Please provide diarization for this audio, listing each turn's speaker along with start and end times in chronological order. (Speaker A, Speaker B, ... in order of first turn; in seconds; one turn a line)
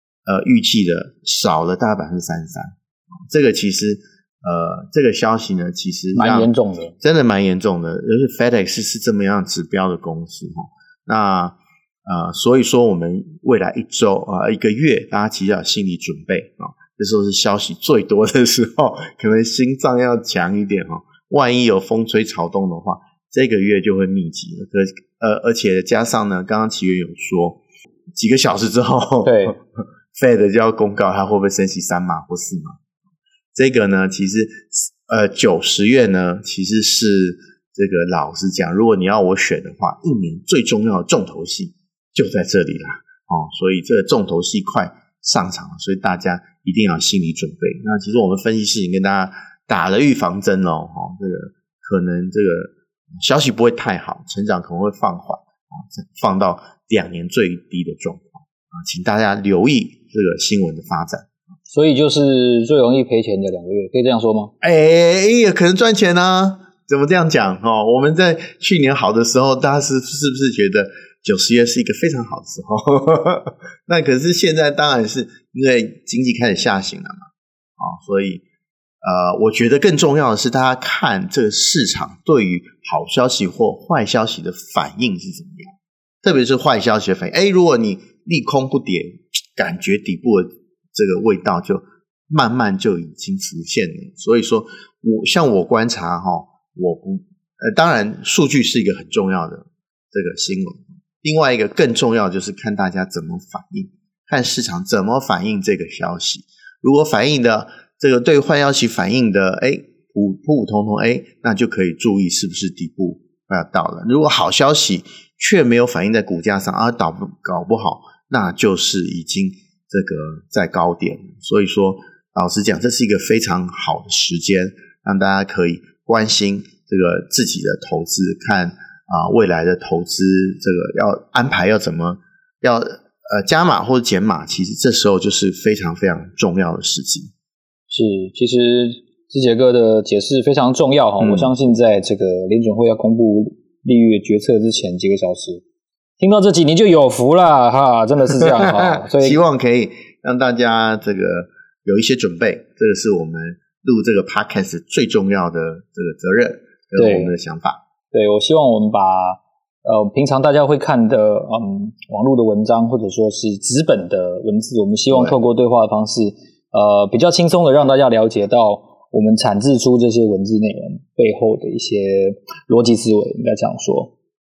Speaker A: 0.2-2.7
Speaker A: 3.3-27.6
Speaker B: 6.1-6.9
Speaker A: 28.1-29.6
Speaker B: 29.2-29.6
Speaker A: 30.1-32.8
Speaker A: 33.5-61.3
Speaker B: 61.7-64.5
Speaker A: 64.6-77.3
Speaker A: 77.8-78.4
Speaker A: 79.0-137.3
Speaker B: 137.9-145.6
Speaker A: 141.2-141.5
Speaker B: 146.2-149.4
Speaker A: 148.9-157.8
Speaker B: 156.9-157.3
Speaker B: 158.1-174.1
Speaker A: 165.1-165.4